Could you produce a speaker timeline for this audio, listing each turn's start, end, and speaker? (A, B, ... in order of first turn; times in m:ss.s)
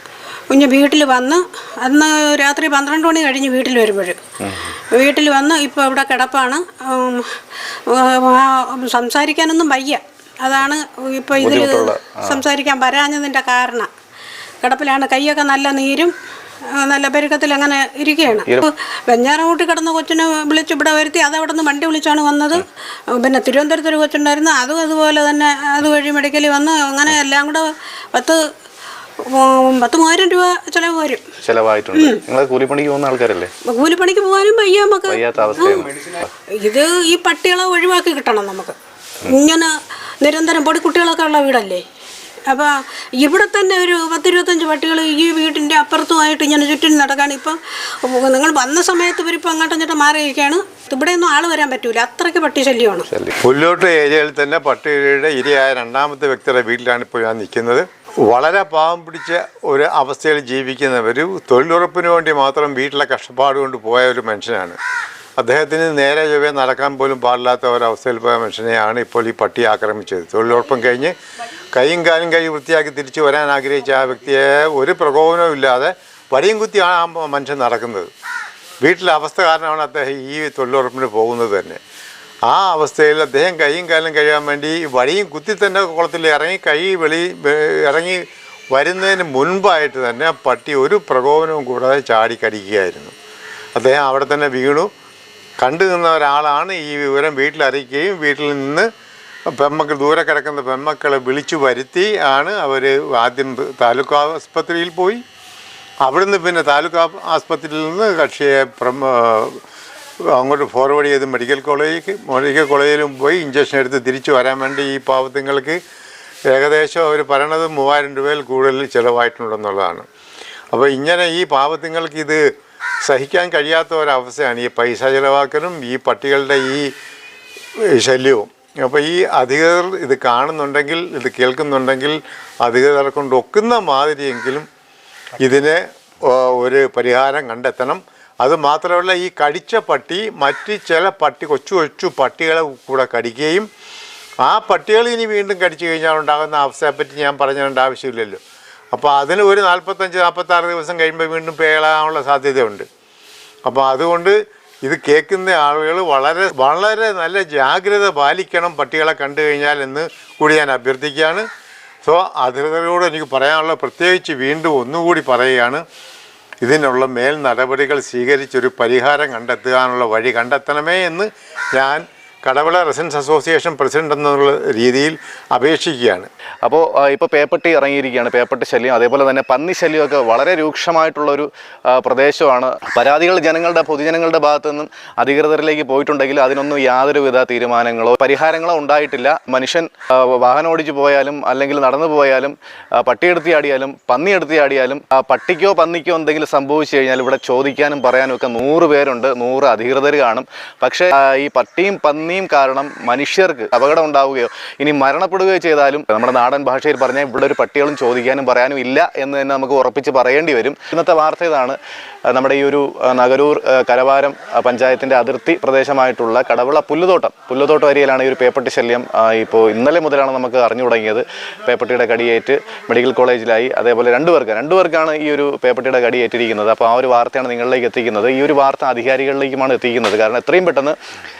0:00.5-0:04.2 A
0:04.4-0:04.7 B
0:04.9-0:07.3 A
0:07.9-0:13.9 A
0:11.4-0:12.4 B
0:14.6-0:16.1 A
0:16.8-0:22.6 A
0:23.2-0:28.4 A
0:29.3-0:31.2 A
0:31.4-0:33.5 B
0:32.0-0:32.2 A
0:33.7-0:35.9 A
0:35.1-0:36.3 B
0:36.6-0:38.8 A
0:39.3-0:41.8 A
0:42.5-0:53.1 A
0:53.1-0:53.4 B
0:53.4-1:04.8 C
1:05.4-1:11.1 C
1:11.7-1:18.1 C
1:18.8-1:21.8 C
1:22.5-1:33.1 C
1:33.8-1:34.9 C
1:35.6-1:38.9 C
1:39.5-1:45.2 C
1:46.0-1:49.6 C
1:50.4-1:55.8 C
1:56.5-2:00.1 C
2:00.7-2:02.4 C
2:03.0-2:06.9 C
2:07.9-2:14.7 C
2:15.4-2:23.7 C
2:24.4-2:28.4 C
2:28.9-2:32.9 C
2:33.7-2:41.5 C
2:42.0-2:45.8 C
2:46.6-2:56.3 C
2:56.6-3:31.8 B
3:32.3-3:51.0 B